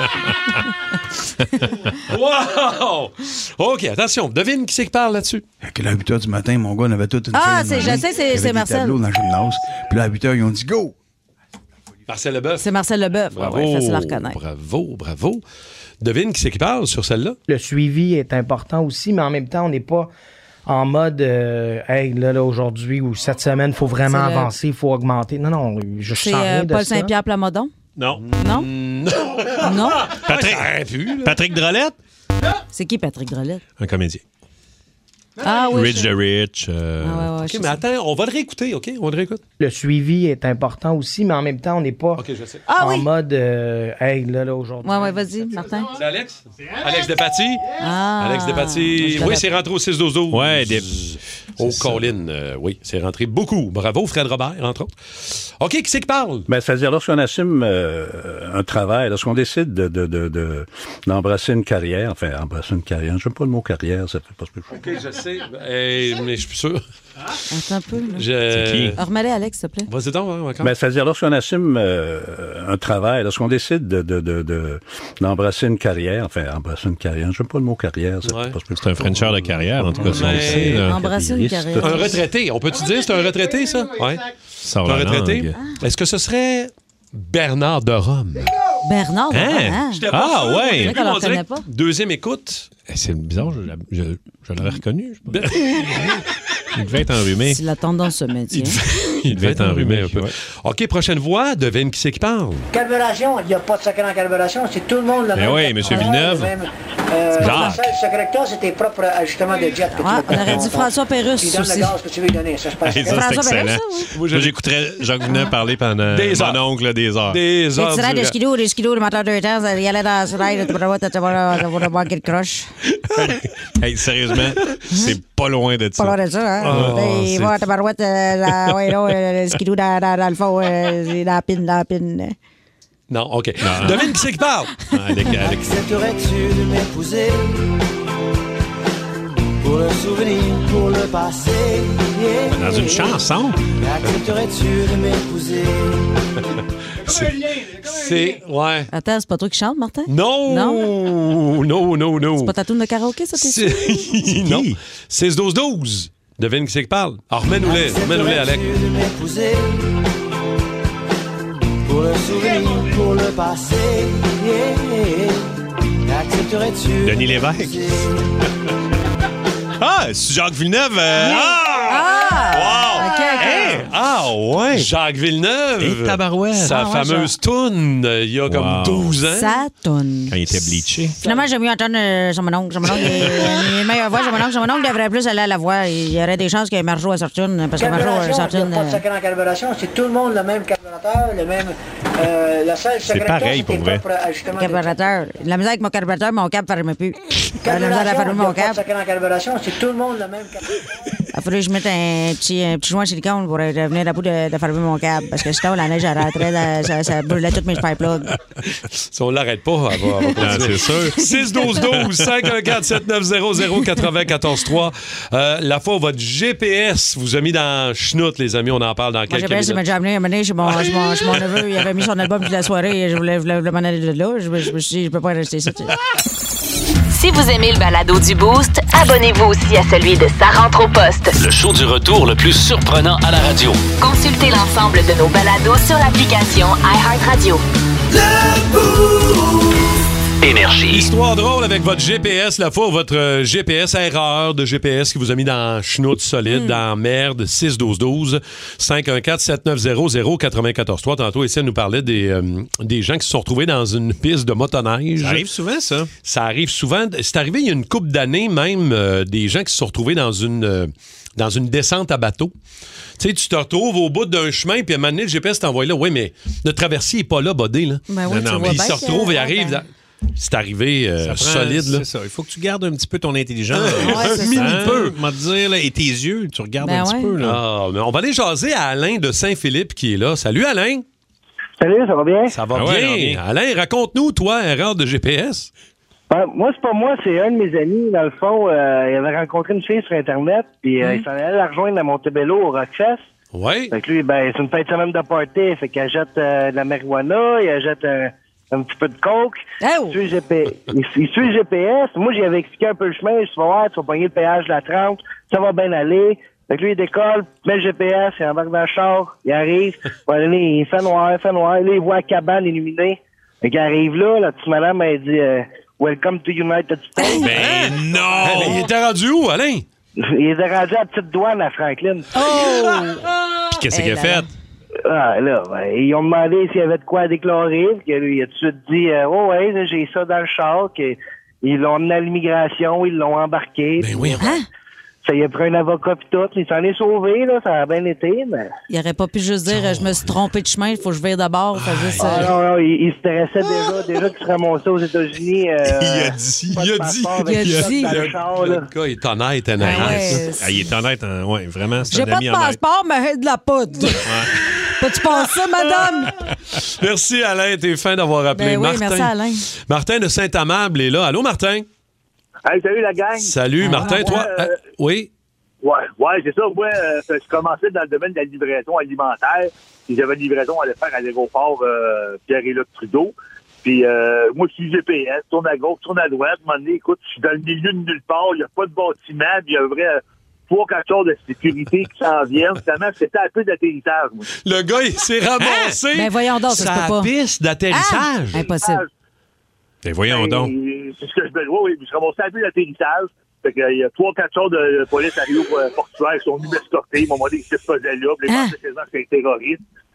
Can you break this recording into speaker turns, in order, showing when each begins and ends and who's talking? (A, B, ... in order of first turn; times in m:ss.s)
0:02.0-0:05.4 A
0:05.7-0:10.9 B
0:07.3-0:09.0 C
0:12.1-0:12.7 A
0:12.6-0:14.4 C
0:13.3-0:15.4 A
0:16.0-0:17.4 A
0:17.5-0:20.1 D
0:20.7-0:27.1 D
0:24.0-0:24.5 C
0:26.1-0:27.7 C
0:28.0-0:28.2 E
0:28.2-0:31.4 A
0:28.4-0:28.7 C
0:29.6-0:30.1 C
0:30.2-0:32.0 E
0:32.7-0:33.6 C
0:33.8-0:34.2 E
0:35.4-0:36.1 C
0:35.7-0:37.3 E
0:37.0-0:37.8 C
0:37.4-0:39.4 A
0:39.6-0:42.2 D
0:42.2-0:42.7 A
0:42.7-0:43.1 C
0:42.8-0:45.4 D
0:44.8-0:46.0 C
0:45.9-0:54.9 A
0:47.8-0:49.5 C
0:50.3-0:50.9 E
0:51.6-0:52.1 E
0:55.6-0:56.5 A
0:56.5-1:04.7 F
1:04.7-1:06.8 A
1:07.5-1:08.3 C
1:08.1-1:09.0 A
1:08.5-1:09.0 E
1:09.0-1:09.9 C
1:09.9-1:10.7 A
1:10.6-1:22.2 F
1:18.2-1:18.6 A
1:18.7-1:21.0 E
1:20.0-1:20.8 A
1:20.8-1:22.2 C
1:21.8-1:24.3 A
1:24.6-1:25.6 E
1:24.8-1:28.6 A
1:28.8-1:30.0 C
1:29.3-1:31.0 E
1:29.9-1:32.7 A
1:30.8-1:31.6 C
1:32.9-1:35.4 E
1:35.3-1:36.2 A
1:36.7-1:37.6 E
1:37.5-1:38.8 C
1:38.5-1:42.7 A
1:39.3-1:40.3 E
1:42.7-1:53.3 G
1:45.3-1:46.5 E
1:47.4-1:47.8 C
1:47.4-1:47.8 E
1:47.5-1:47.7 A
1:49.9-1:52.0 C
1:52.8-1:57.4 E
1:53.1-1:54.1 C
1:54.1-1:54.6 A
1:56.1-1:56.6 A
1:57.3-1:58.4 A
1:57.8-2:02.7 C
2:03.1-2:07.5 E
2:06.0-2:12.4 C
2:06.6-2:07.4 A
2:13.1-2:14.7 A
2:13.6-2:14.1 E
2:14.9-2:15.8 E
2:15.3-2:17.8 H
2:19.6-2:23.2 H
2:22.5-2:23.6 E
2:23.8-2:26.3 H
2:27.0-2:28.9 A
2:28.9-2:30.9 C
2:30.1-2:32.5 A
2:32.4-2:34.0 C
2:33.4-2:38.7 A
2:34.2-2:34.8 E
2:37.6-2:40.0 H
2:41.8-2:45.5 H
2:46.0-2:48.2 H
2:47.0-2:47.8 E
2:49.8-2:54.9 E
2:51.2-2:53.7 C
2:51.2-2:54.0 A
2:54.7-2:59.6 A
2:55.8-2:56.8 E
2:56.7-2:57.3 C
2:58.5-2:59.2 E
2:59.3-3:00.3 C
3:00.3-3:01.2 E
3:01.2-3:09.0 C
3:07.8-3:14.9 G
3:13.0-3:14.0 E
3:14.6-3:18.8 C
3:17.6-3:20.6 G
3:21.3-3:28.3 C
3:29.1-3:39.8 A
3:30.4-3:32.1 E
3:39.3-3:46.0 C
3:47.1-3:51.4 I
3:51.4-3:53.8 J
3:54.0-3:57.6 I
4:00.4-4:01.1 I
4:00.9-4:15.4 A
4:06.5-4:06.8 C
4:15.2-4:16.1 E
4:16.2-4:22.5 A
4:23.2-4:32.0 A
4:28.1-4:29.8 C
4:28.3-4:29.0 E
4:31.2-4:37.6 E
4:33.7-4:35.2 A
4:34.0-4:34.9 C
4:36.8-4:37.3 C
4:37.4-4:41.0 A
4:41.8-4:42.6 K
4:42.5-4:45.7 A
4:42.7-4:43.4 E
4:46.3-4:53.2 K
4:53.5-4:53.9 A
4:53.9-5:17.4 K
4:59.8-5:00.2 C
5:17.2-5:17.4 C
5:17.4-5:18.9 E
5:17.5-5:19.8 A
5:20.2-5:22.3 K
5:22.3-5:23.3 C
5:23.9-5:24.5 C
5:24.1-5:24.4 E
5:25.0-5:34.4 K
5:34.0-5:34.5 A
5:34.4-5:34.7 C
5:35.2-5:38.7 K
5:38.9-5:42.5 C
5:39.7-5:40.3 A
5:41.8-5:42.5 A
5:42.2-5:48.9 K
5:45.9-5:46.8 E
5:46.8-5:50.4 A
5:47.5-5:48.2 C
5:49.8-5:52.8 E
5:49.8-5:50.7 C
5:52.1-5:54.3 C
5:54.2-5:54.7 E
5:55.0-5:56.3 C
5:56.0-6:01.9 A
5:58.5-5:59.6 C
6:02.7-6:04.8 L
6:03.4-6:05.3 A
6:03.8-6:04.4 C
6:05.8-6:24.5 L
6:24.6-6:28.6 A
6:25.6-6:26.0 E
6:26.1-6:27.3 C
6:27.9-6:29.0 C
6:28.5-6:29.1 L
6:30.0-6:30.7 E
6:30.3-6:39.8 L
6:38.5-6:38.8 C